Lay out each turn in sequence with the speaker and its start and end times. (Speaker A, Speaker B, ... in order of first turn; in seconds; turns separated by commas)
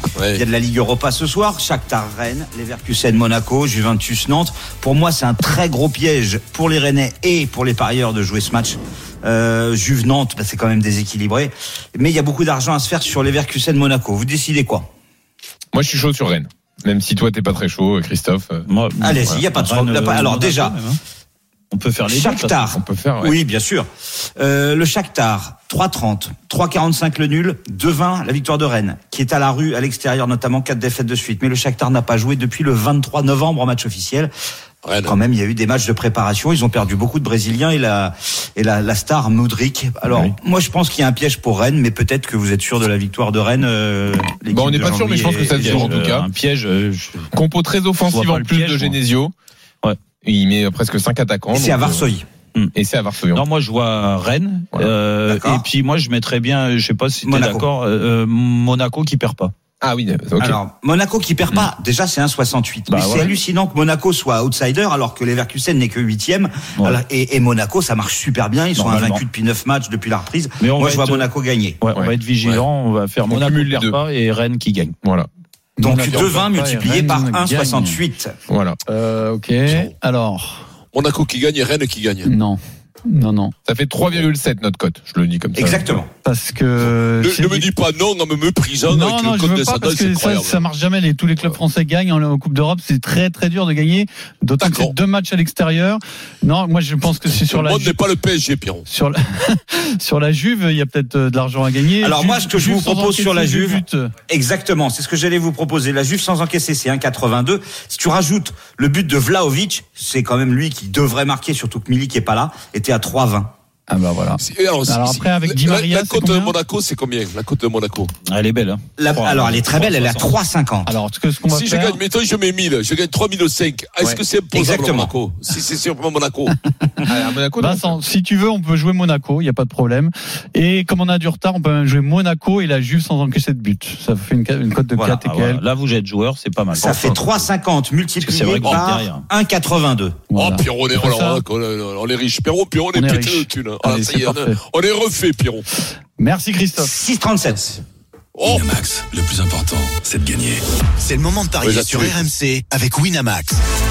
Speaker A: 0.2-0.4, Speaker B: 0.3-14.9, Speaker C: 15.7-18.7, Speaker D: 18.6-21.0, Speaker B: 19.0-20.8, Speaker D: 21.7-22.8, Speaker B: 22.1-34.3, Speaker C: 22.7-23.4, Speaker A: 34.8-35.2, Speaker B: 35.0-45.9, Speaker C: 44.5-46.3, Speaker D: 44.9-47.3, Speaker C: 47.3-49.3, Speaker D: 48.1-49.0, Speaker C: 50.2-52.1, Speaker B: 51.5-52.2, Speaker C: 52.7-53.4, Speaker D: 53.3-59.5, Speaker B: 55.3-55.6, Speaker B: 57.2-57.7, Speaker C: 59.8-60.6, Speaker B: 60.4-71.8, Speaker D: 62.9-63.4, Speaker D: 66.7-67.0, Speaker D: 68.7-69.2, Speaker D: 70.6-75.0, Speaker C: 73.2-74.0, Speaker C: 75.0-75.3, Speaker E: 75.8-78.0, Speaker B: 75.8-78.3, Speaker C: 78.5-78.8, Speaker E: 78.9-80.6, Speaker A: 80.9-82.3, Speaker E: 82.2-83.5, Speaker C: 83.6-86.0, Speaker B: 85.5-86.1, Speaker E: 86.2-87.7, Speaker A: 86.8-90.6, Speaker E: 88.9-98.0, Speaker A: 94.6-94.9, Speaker A: 97.2-98.8, Speaker E: 98.9-104.1, Speaker B: 102.0-113.5, Speaker E: 113.9-116.5, Speaker A: 114.4-118.1, Speaker D: 118.2-120.4, Speaker B: 119.0-121.0, Speaker E: 120.8-122.0, Speaker A: 121.5-126.6, Speaker B: 124.5-125.1, Speaker C: 127.1-128.0, Speaker E: 127.6-135.6, Speaker D: 134.9-137.5, Speaker B: 136.7-140.2, Speaker D: 138.2-139.3, Speaker E: 140.3-141.4, Speaker A: 140.3-145.6, Speaker E: 142.9-144.6, Speaker E: 146.2-146.9, Speaker B: 146.8-147.8, Speaker A: 148.3-148.6, Speaker F: 148.5-153.6, Speaker A: 151.6-152.2